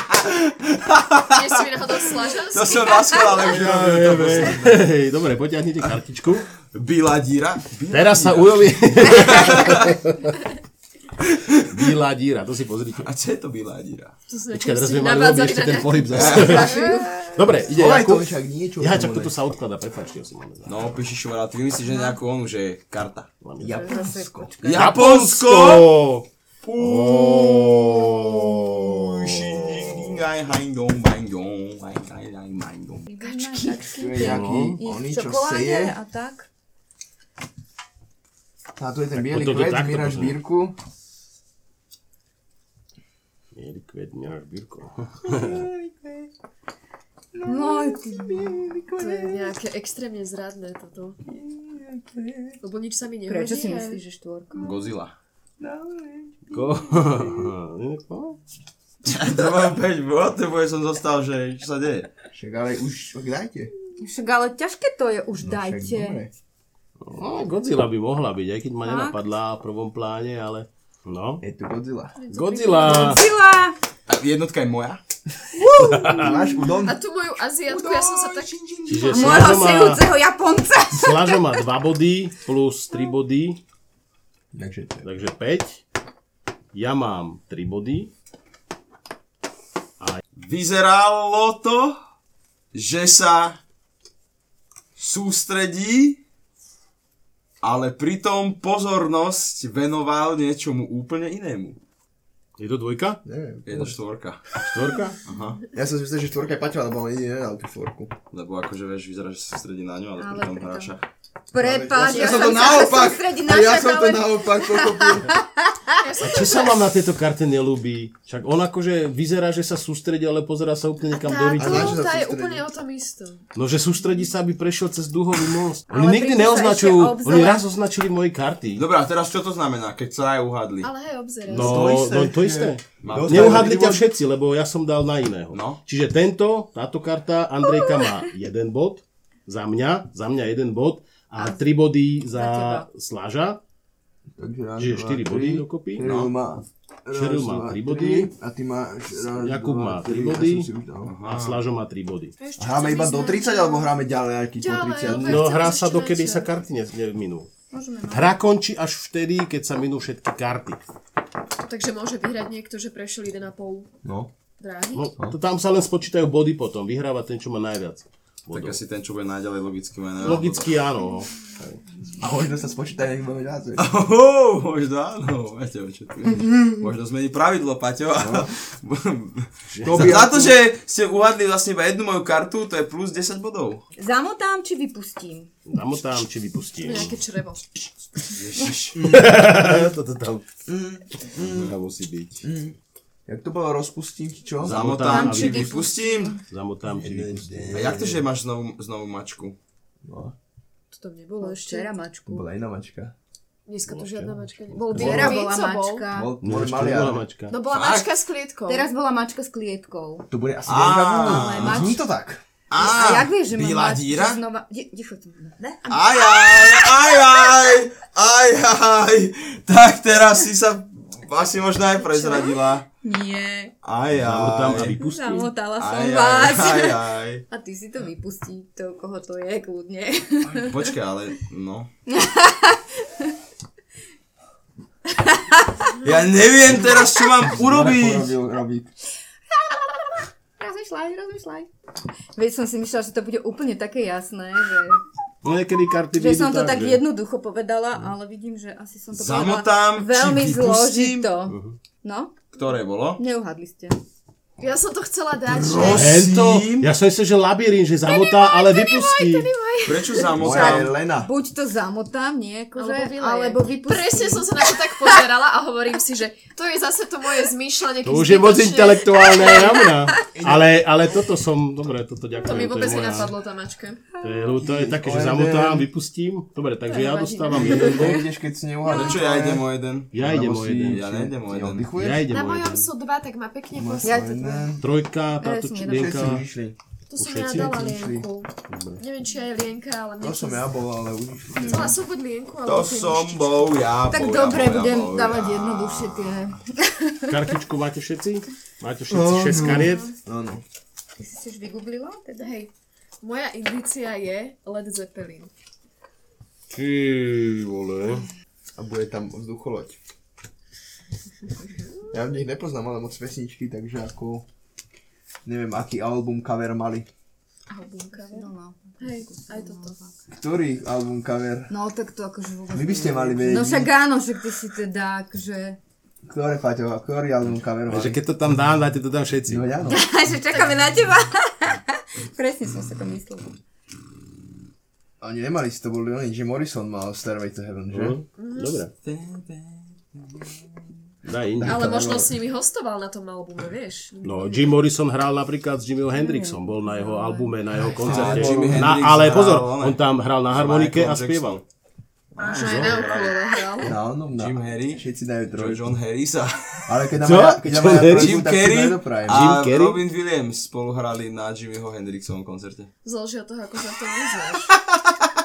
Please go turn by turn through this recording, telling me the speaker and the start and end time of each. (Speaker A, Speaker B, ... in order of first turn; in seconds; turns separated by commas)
Speaker A: 0.8-1.3, Speaker B: 1.2-3.4, Speaker A: 2.5-4.8, Speaker C: 2.8-3.4, Speaker D: 3.4-6.5, Speaker A: 6.7-10.0, Speaker D: 7.9-10.4, Speaker A: 11.2-11.9, Speaker D: 11.7-13.1, Speaker A: 13.0-14.1, Speaker B: 14.3-17.1, Speaker D: 14.5-20.8, Speaker C: 16.1-17.5, Speaker A: 16.1-16.8, Speaker E: 17.6-19.4, Speaker A: 20.6-23.3, Speaker C: 21.8-22.2, Speaker D: 23.4-23.9, Speaker E: 23.6-24.5, Speaker C: 23.8-25.0, Speaker A: 24.6-25.9, Speaker D: 24.7-26.2, Speaker A: 26.6-33.1, Speaker D: 26.8-30.2, Speaker C: 33.1-36.5, Speaker B: 33.2-33.9, Speaker E: 34.0-36.0, Speaker D: 34.2-34.8, Speaker E: 38.8-40.8, Speaker D: 39.1-40.4, Speaker D: 43.5-45.7, Speaker E: 45.2-46.3, Speaker E: 47.3-49.5, Speaker C: 47.4-48.7, Speaker B: 49.0-51.2, Speaker E: 51.3-52.6, Speaker B: 52.6-54.0, Speaker C: 53.3-54.9, Speaker A: 54.5-55.1, Speaker E: 55.6-57.5, Speaker D: 56.5-58.4, Speaker A: 59.0-62.1, Speaker E: 62.3-63.7, Speaker C: 64.0-66.3, Speaker E: 65.4-66.3, Speaker D: 67.0-71.4, Speaker C: 68.8-69.2, Speaker E: 71.4-72.1, Speaker B: 72.2-73.2, Speaker D: 72.3-73.2, Speaker C: 72.8-73.8, Speaker A: 74.1-75.0, Speaker E: 75.5-77.0, Speaker D: 75.8-76.3, Speaker C: 76.1-76.6, Speaker B: 76.8-78.5, Speaker E: 77.7-79.5, Speaker D: 78.8-80.1, Speaker C: 79.1-81.5, Speaker D: 80.9-83.6, Speaker E: 84.5-85.1, Speaker D: 85.0-85.8, Speaker D: 86.7-88.1, Speaker A: 90.3-92.0, Speaker A: 92.7-93.6, Speaker A: 95.0-96.2, Speaker A: 97.6-101.8, Speaker D: 102.6-103.2, Speaker E: 103.2-104.0, Speaker A: 103.6-104.4, Speaker D: 104.6-105.2, Speaker A: 105.2-105.6, Speaker E: 105.7-108.1, Speaker A: 108.3-111.0, Speaker C: 110.2-110.9, Speaker C: 111.5-116.0, Speaker E: 111.5-115.3, Speaker B: 112.0-112.5, Speaker A: 112.2-112.9, Speaker B: 116.0-116.9, Speaker D: 116.2-122.0, Speaker B: 121.1-123.4, Speaker E: 121.5-122.7, Speaker D: 123.5-128.8, Speaker C: 125.9-127.6, Speaker A: 128.7-130.9, Speaker B: 130.8-131.9, Speaker D: 131.5-143.6, Speaker E: 131.5-134.0, Speaker A: 133.0-133.8, Speaker A: 135.5-135.8, Speaker C: 137.6-138.2, Speaker C: 142.3-142.8, Speaker E: 144.4-151.1, Speaker D: 144.8-146.1, Speaker A: 146.0-146.3, Speaker D: 147.1-148.3, Speaker D: 149.2-150.7, Speaker A: 151.0-151.6, Speaker D: 151.2-152.3, Speaker B: 152.4-154.0, Speaker E: 152.6-155.4, Speaker B: 154.6-156.5, Speaker D: 155.1-157.5, Speaker C: 157.7-158.3, Speaker D: 158.1-160.8, Speaker B: 161.6-163.9, Speaker E: 164.0-164.3, Speaker B: 164.6-165.1, Speaker D: 164.9-168.8, Speaker A: 168.5-170.8, Speaker D: 170.2-171.8, Speaker E: 172.2-173.9, Speaker A: 173.8-183.8, Speaker E: 178.2-178.5, Speaker D: 179.7-180.2, Speaker E: 179.8-180.6, Speaker C: 184.0-185.5, Speaker D: 185.7-187.1, Speaker B: 186.8-187.9, Speaker A: 188.3-189.0, Speaker E: 188.9-189.9, Speaker D: 189.0-190.4, Speaker E: 190.7-191.7, Speaker A: 191.4-191.8, Speaker D: 191.7-192.4, Speaker E: 192.4-195.0, Speaker D: 194.6-195.8, Speaker A: 194.6-196.4, Speaker C: 195.0-196.4, Speaker D: 196.5-197.8, Speaker E: 197.0-198.2, Speaker A: 197.7-199.6, Speaker E: 200.0-200.3, Speaker B: 200.9-201.9, Speaker C: 201.4-202.5, Speaker E: 202.3-203.1, Speaker B: 203.7-206.0, Speaker D: 203.9-205.3, Speaker C: 204.9-206.6, Speaker E: 205.0-205.3, Speaker E: 206.1-207.2, Speaker D: 206.4-207.6, Speaker B: 207.5-208.9, Speaker A: 207.7-208.1, Speaker C: 208.7-210.3, Speaker E: 210.3-212.4, Speaker A: 210.6-211.9, Speaker C: 211.2-211.9, Speaker A: 212.7-214.4, Speaker C: 212.8-216.1, Speaker A: 215.9-222.9, Speaker C: 222.1-223.7, Speaker A: 223.8-225.0, Speaker D: 224.1-225.5, Speaker C: 224.8-230.9, Speaker A: 225.8-227.4, Speaker A: 230.5-231.9, Speaker C: 232.1-233.3, Speaker C: 235.1-235.9, Speaker A: 236.0-238.3, Speaker E: 237.4-238.9, Speaker C: 240.6-241.7, Speaker C: 242.3-245.0, Speaker D: 245.4-247.0, Speaker C: 246.1-252.4, Speaker A: 249.1-251.3, Speaker D: 251.5-251.8, Speaker A: 252.5-253.2, Speaker C: 253.2-254.0, Speaker B: 254.6-256.2, Speaker A: 255.5-256.9, Speaker D: 255.9-259.5, Speaker B: 258.1-260.4, Speaker A: 259.8-260.9, Speaker C: 260.4-265.2, Speaker E: 260.4-261.3, Speaker B: 262.8-269.8, Speaker D: 268.0-273.3, Speaker C: 269.4-270.2, Speaker E: 270.3-270.9, Speaker B: 272.4-274.0, Speaker C: 274.1-274.6, Speaker D: 274.2-278.2, Speaker E: 274.6-275.9, Speaker B: 276.9-278.2, Speaker E: 277.5-279.7, Speaker A: 278.8-281.9, Speaker B: 278.9-279.2, Speaker D: 280.1-281.1, Speaker E: 280.2-282.3, Speaker D: 281.9-282.9, Speaker B: 282.3-284.3, Speaker E: 283.7-284.8, Speaker C: 284.0-284.7, Speaker D: 284.8-286.4, Speaker C: 285.4-286.3, Speaker E: 285.9-286.8, Speaker B: 287.1-290.7, Speaker D: 287.2-287.9, Speaker E: 287.5-288.2, Speaker D: 288.7-289.0, Speaker E: 290.2-291.9, Speaker C: 291.6-291.9, Speaker B: 291.6-293.7, Speaker A: 292.6-296.6, Speaker C: 294.1-297.5, Speaker D: 297.3-300.1, Speaker E: 299.1-300.6, Speaker C: 299.5-300.1, Speaker C: 301.2-302.5, Speaker B: 302.4-302.7, Speaker B: 303.2-305.5, Speaker D: 306.7-308.2, Speaker E: 308.8-310.0, Speaker E: 312.1-314.4, Speaker E: 315.4-317.1, Speaker B: 317.7-318.5, Speaker C: 318.1-320.1, Speaker B: 319.0-319.9, Speaker E: 320.3-321.7, Speaker C: 321.7-325.8, Speaker E: 322.7-323.9, Speaker E: 326.3-328.2, Speaker D: 327.9-329.9, Speaker E: 329.5-330.0, Speaker C: 329.9-333.5, Speaker B: 330.5-330.9, Speaker E: 335.2-338.2, Speaker D: 337.9-338.9, Speaker B: 338.4-338.8, Speaker A: 339.0-340.5, Speaker D: 341.2-341.9, Speaker E: 341.5-342.3, Speaker B: 341.6-344.8, Speaker D: 344.2-351.6, Speaker C: 346.1-347.7, Speaker E: 347.9-348.9, Speaker A: 347.9-351.6, Speaker A: 352.3-353.4, Speaker B: 352.4-353.9, Speaker D: 352.5-352.9, Speaker E: 353.8-355.9, Speaker A: 354.3-356.8, Speaker E: 356.9-359.5, Speaker D: 357.2-358.4, Speaker A: 358.1-362.9, Speaker D: 359.3-360.0, Speaker B: 363.0-364.7, Speaker A: 364.9-365.1